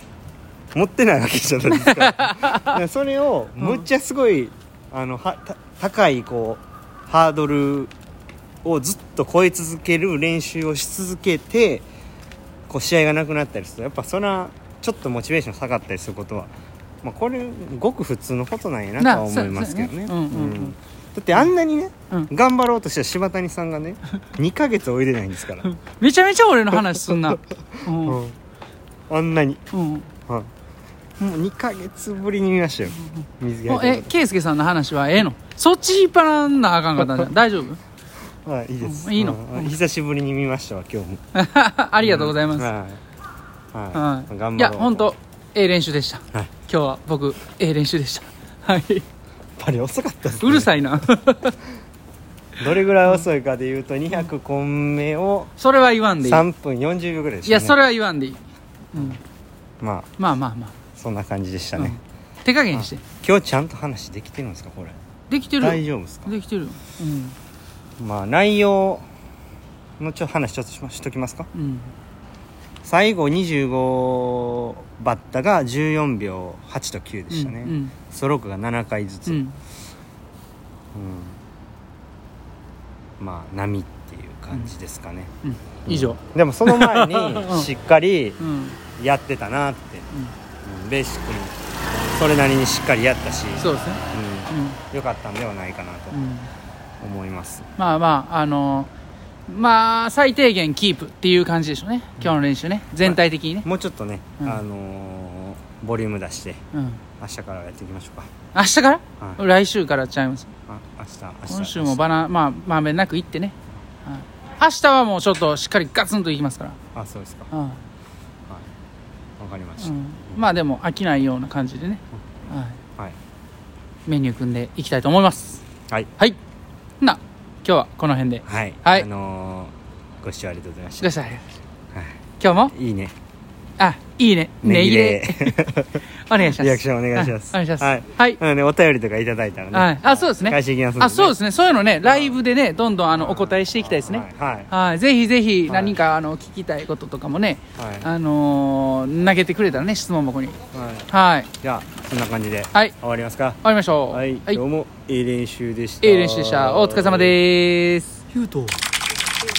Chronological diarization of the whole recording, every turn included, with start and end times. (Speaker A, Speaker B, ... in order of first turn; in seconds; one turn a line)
Speaker A: 0.7-7.9
Speaker B: 1.7-2.8
Speaker B: 3.6-3.8
Speaker A: 8.6-11.8
Speaker A: 12.7-16.5
Speaker A: 17.0-25.7
Speaker B: 19.0-20.7
Speaker B: 25.6-28.2
Speaker A: 27.1-28.3
Speaker A: 29.1-29.6
Speaker B: 29.7-30.1
Speaker A: 31.2-34.1
Speaker B: 33.6-37.8
Speaker A: 38.4-41.2
Speaker B: 38.8-39.8
Speaker B: 41.3-42.7
Speaker A: 42.0-43.0
Speaker A: 43.7-45.1
Speaker B: 43.9-49.0
Speaker A: 49.6-50.9
Speaker B: 50.4-51.5
Speaker A: 52.6-55.5
Speaker B: 55.6-56.4
Speaker A: 56.2-57.8
Speaker B: 57.4-58.4
Speaker B: 58.9-59.2
Speaker A: 59.8-60.1
Speaker B: 60.2-60.8
Speaker A: 60.9-62.0
Speaker B: 61.8-63.0
Speaker A: 62.7-65.0
Speaker B: 65.3-67.3
Speaker A: 65.6-66.3
Speaker A: 68.0-69.0
Speaker A: 70.0-71.5
Speaker B: 71.5-71.9
Speaker A: 72.8-79.4
Speaker B: 77.3-78.0
Speaker B: 79.3-79.5
Speaker A: 80.9-81.4
Speaker A: 83.2-85.3
Speaker B: 85.4-87.7
Speaker A: 85.9-88.4
Speaker B: 88.4-88.8
Speaker A: 89.0-90.1
Speaker A: 90.6-91.5
Speaker A: 92.1-96.2
Speaker B: 93.6-94.8
Speaker B: 96.1-96.5
Speaker A: 97.0-97.7
Speaker B: 97.8-98.9
Speaker B: 99.5-103.7
Speaker A: 103.0-106.6
Speaker B: 106.7-107.0
Speaker A: 107.2-108.3
Speaker B: 108.5-110.5
Speaker A: 110.7-112.0
Speaker B: 111.5-113.5
Speaker B: 114.0-116.8
Speaker A: 116.9-117.5
Speaker B: 117.5-117.8
Speaker A: 119.4-120.5
Speaker B: 119.8-122.8
Speaker B: 124.1-125.6
Speaker B: 127.0-129.1
Speaker A: 128.4-131.2
Speaker B: 131.0-131.5
Speaker B: 132.4-132.7
Speaker A: 132.7-133.1
Speaker B: 133.8-138.4
Speaker A: 134.6-141.4
Speaker B: 139.7-150.6
Speaker A: 142.0-142.4
Speaker A: 143.1-144.7
Speaker A: 145.7-146.0
Speaker A: 147.8-148.1
Speaker A: 150.7-151.1
Speaker B: 151.1-151.5
Speaker A: 151.6-153.6
Speaker B: 153.6-154.6
Speaker A: 154.1-157.4
Speaker B: 156.0-158.3
Speaker A: 158.3-158.8